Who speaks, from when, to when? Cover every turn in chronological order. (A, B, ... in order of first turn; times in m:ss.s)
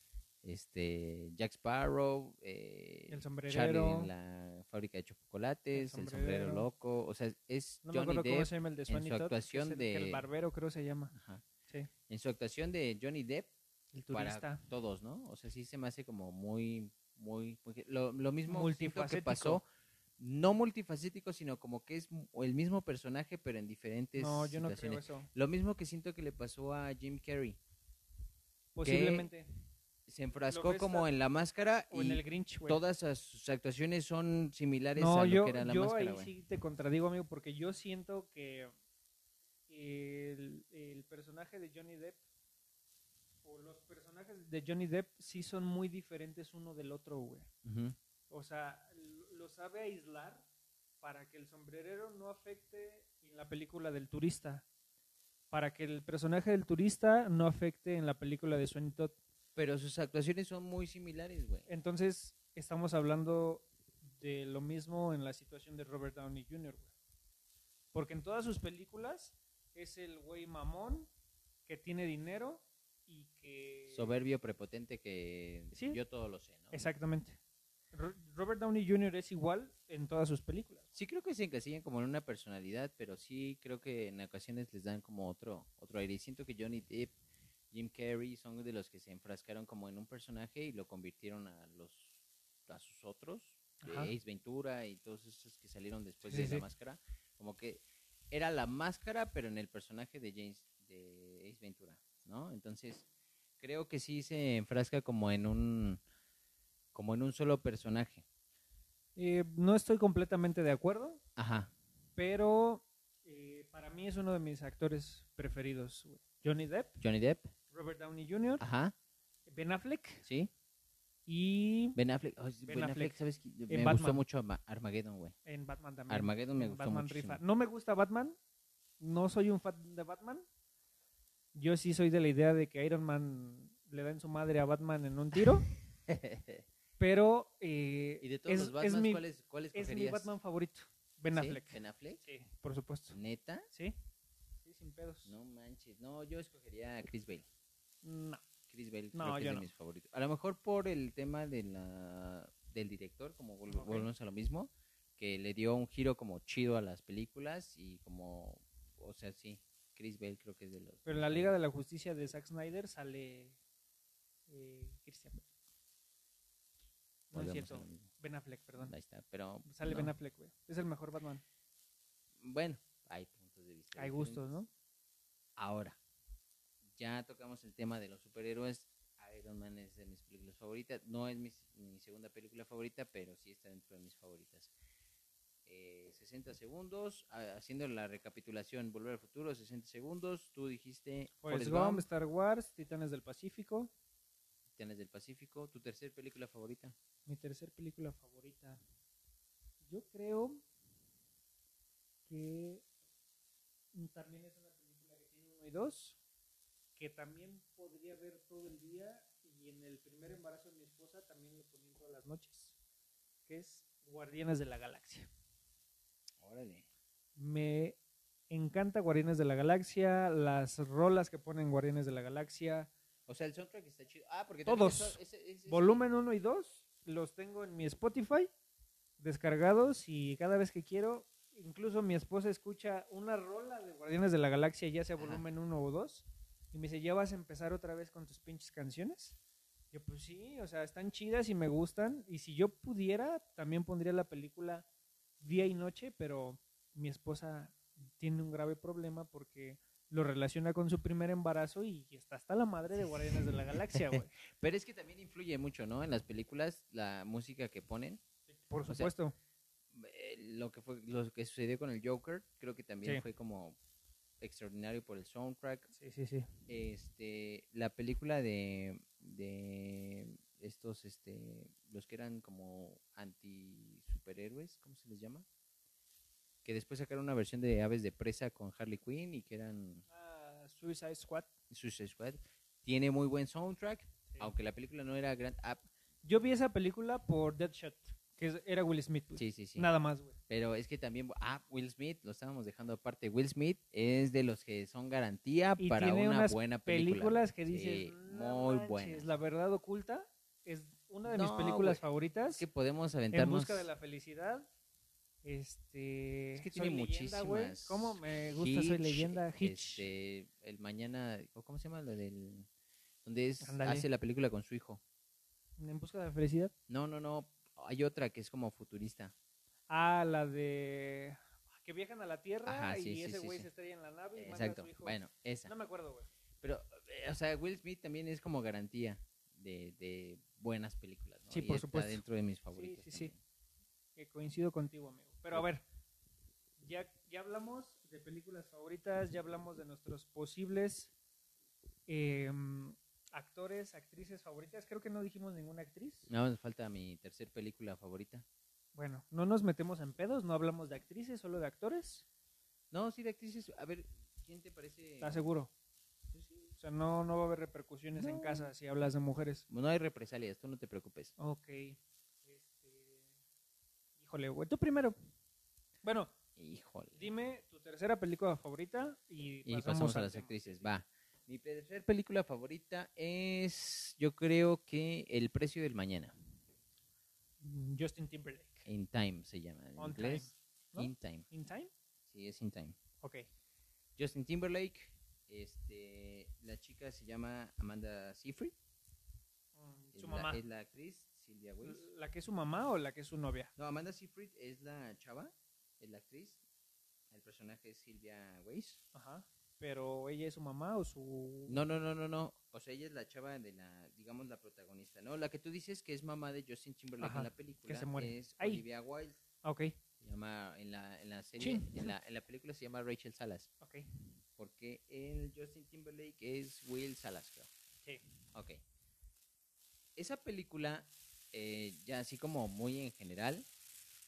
0:00.4-0:10.2 A
0:03.1-0:04.1 B
0:05.7-0:06.7 B
0:07.8-0:11.1 B
0:11.1-0:11.4 A
0:12.1-0:13.5 A
0:13.9-0:14.6 B
0:14.1-0:19.6 A
0:18.5-0:19.6 B
0:20.2-0:27.6 A
0:24.2-0:25.3 B
0:28.7-0:29.5 B
0:28.8-0:29.3 A
0:30.1-0:36.3 A
0:30.5-0:31.1 B
0:31.9-0:32.8 B
0:35.0-0:38.7 B
0:39.7-0:42.2 B
0:43.4-0:47.5 B
0:47.6-0:48.0 A
0:48.3-0:50.4 B
0:51.0-0:54.6 B
0:55.5-0:59.2 B
0:59.6-1:01.7 A
1:01.7-1:06.9 B
1:07.9-1:11.1 B
1:11.7-1:14.1 B
1:13.9-1:16.9 A
1:15.7-1:16.0 B
1:16.7-1:17.4 B
1:17.9-1:20.9 B
1:20.9-1:27.1 A
1:27.7-1:43.1 A
1:33.8-1:34.1 B
1:36.3-1:36.6 B
1:43.6-1:46.0 A
1:46.9-1:48.2 A
1:49.2-1:51.2 B
1:51.4-1:51.7 A
1:52.2-1:57.0 B
1:57.0-1:57.5 A
1:57.7-1:58.6 B
1:58.6-1:58.9 A
1:59.5-2:00.2 B
2:00.2-2:00.5 A
2:01.3-2:02.0 B
2:02.0-2:05.3 A
2:02.6-2:03.2 B
2:03.7-2:04.2 B
2:05.4-2:08.4 B
2:06.1-2:07.4 A
2:09.0-2:10.4 B
2:11.5-2:15.7 B
2:15.4-2:16.6 A
2:17.0-2:19.2 B
2:18.2-2:20.4 A
2:19.7-2:23.2 B
2:21.3-2:22.2 A
2:23.1-2:23.7 A
2:24.6-2:25.3 B
2:25.2-2:27.4 A
2:28.0-2:28.4 B
2:28.7-2:41.5 A
2:29.1-2:29.7 B
2:33.7-2:34.1 B
2:41.0-2:43.6 B
2:44.5-2:45.4 B
2:47.3-2:48.9 B
2:47.3-2:48.1 A
2:48.8-2:50.1 A
2:49.6-2:51.4 B
2:52.4-2:54.4 A
2:54.0-2:54.7 B
2:55.6-2:56.0 A
2:56.9-3:04.7 A
3:05.6-3:12.0 A
3:11.4-3:13.9 B
3:14.8-3:16.9 A
3:17.2-3:18.8 B
3:19.8-3:20.6 B
3:22.3-3:22.8 B
3:23.9-3:26.2 B
3:27.0-3:32.7 B
3:33.5-3:35.3 B
3:36.4-3:36.8 A
3:37.4-3:38.0 B
3:38.5-3:42.9 B
3:43.3-3:46.0 A
3:44.6-3:48.5 B
3:49.2-3:59.4 B
3:59.9-4:04.8 B
4:05.4-4:14.3 B
4:13.9-4:18.2 A
4:18.5-4:19.3 B
4:18.9-4:19.1 A
4:19.9-4:23.8 A
4:24.4-4:25.9 A
4:25.9-4:26.5 B
4:26.7-4:35.4 A
4:36.6-4:40.0 A
4:40.1-4:41.5 B
4:41.7-4:45.8 A
4:46.2-4:50.4 B
4:49.4-4:49.9 A
4:50.5-4:59.3 A
4:55.8-5:02.6 B
5:01.2-5:03.9 A
5:03.3-5:04.7 B
5:05.4-5:10.1 B
5:06.6-5:12.7 A
5:13.2-5:15.0 A
5:13.6-5:14.0 B
5:15.8-5:16.7 B
5:16.9-5:19.3 A
5:19.9-5:26.3 B
5:22.6-5:23.7 A
5:24.4-5:25.7 A
5:26.6-5:33.4 A
5:31.5-5:33.3 B
5:34.2-5:35.8 B
5:36.8-5:41.1 B
5:42.1-5:46.3 B
5:46.3-5:48.4 A
5:48.9-5:52.2 B
5:52.9-5:55.4 A
5:55.2-5:55.7 B
5:56.7-5:59.6 B
5:58.2-5:58.7 A
5:59.7-6:01.3 A
6:01.4-6:03.3 B
6:04.2-6:05.2 B
6:06.0-6:06.3 B
6:06.6-6:07.3 A
6:07.2-6:10.9 B
6:09.6-6:16.3 A
6:17.6-6:18.9 B
6:18.8-6:21.4 A
6:20.0-6:21.9 B
6:22.3-6:23.0 A
6:24.2-6:28.7 A
6:29.8-6:30.6 B
6:30.1-6:32.1 A
6:31.8-6:33.7 B
6:33.8-6:36.6 A
6:37.3-6:39.0 A
6:39.1-6:41.8 B
6:41.7-6:49.4 A
6:47.2-6:48.8 B
6:49.6-6:49.9 B
6:50.2-6:53.7 A
6:51.6-6:52.1 B
6:53.8-6:54.0 B
6:54.6-6:57.7 A
6:58.5-6:58.8 A
7:00.2-7:03.6 A